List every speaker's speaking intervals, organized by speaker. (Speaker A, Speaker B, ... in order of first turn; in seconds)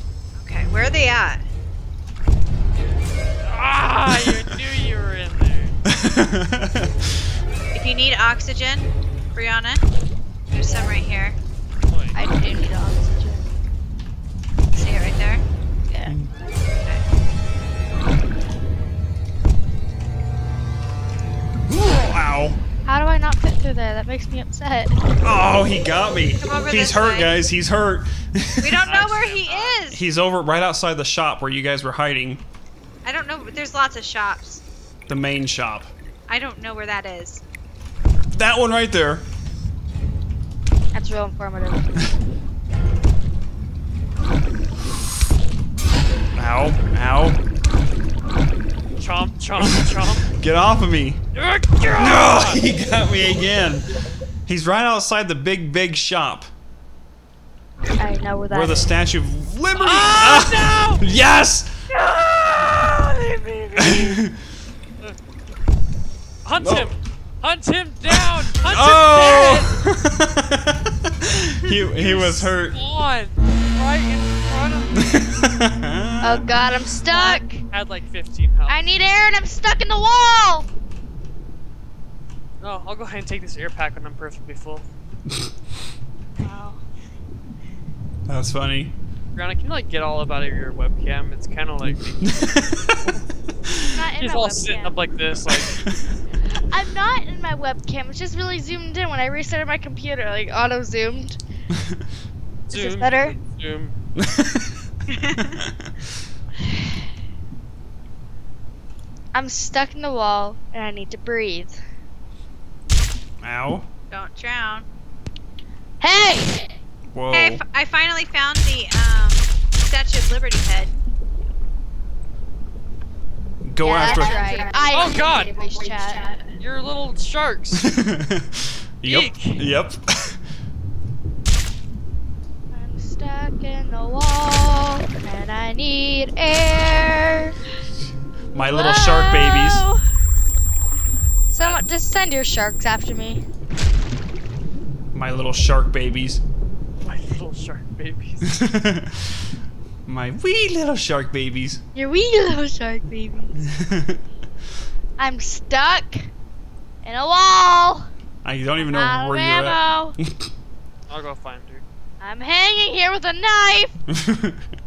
Speaker A: 0.4-1.4, 7.7-9.8, 10.5-11.4, 14.7-15.4, 26.4-27.4, 28.6-30.0, 33.0-34.6, 36.3-37.4, 105.1-105.6, 114.1-114.9, 117.3-120.9, 124.1-124.9
Speaker B: 3.4-5.8, 11.9-12.2, 28.9-29.8, 49.0-50.3, 51.3-52.6, 59.8-61.0, 61.9-64.2, 66.5-69.8, 72.0-75.0, 77.1-78.8, 82.6-84.9, 89.3-93.2, 94.2-95.7, 102.7-104.0, 124.9-125.6, 126.6-127.8, 129.1-129.6, 141.6-141.9, 147.0-148.6, 161.1-161.8
Speaker C: 5.9-7.0, 16.1-16.3, 21.7-22.6, 25.2-28.8, 29.9-32.4, 35.1-35.9, 38.3-39.3, 46.4-47.4, 50.3-51.2, 52.0-53.9, 54.5-56.5, 58.5-61.8, 63.8-64.3, 66.6-66.9, 68.1-72.8, 75.0-76.6, 88.3-88.9, 92.3-92.8, 93.7-94.0, 95.5-96.0, 101.7-102.0, 104.2-104.8, 105.6-105.9, 113.4-113.9, 117.1-117.6, 123.6-124.4, 127.8-130.4, 138.5-139.8, 145.1-146.4, 148.4-149.4, 150.1-151.8, 153.7-154.2, 158.4-160.5, 164.1-164.6
Speaker D: 10.6-11.0, 12.1-13.5, 15.9-16.1, 22.9-24.9, 40.9-41.9, 58.0-58.9, 76.2-77.6, 78.7-80.7, 86.4-86.8, 93.9-95.0, 96.5-101.4, 102.7-103.3, 109.3-111.8, 116.0-116.8, 123.8-126.2, 132.7-137.6, 138.6-140.0, 141.5-143.4, 151.9-153.6, 155.2-156.3, 157.0-158.1, 158.8-160.2, 162.2-164.0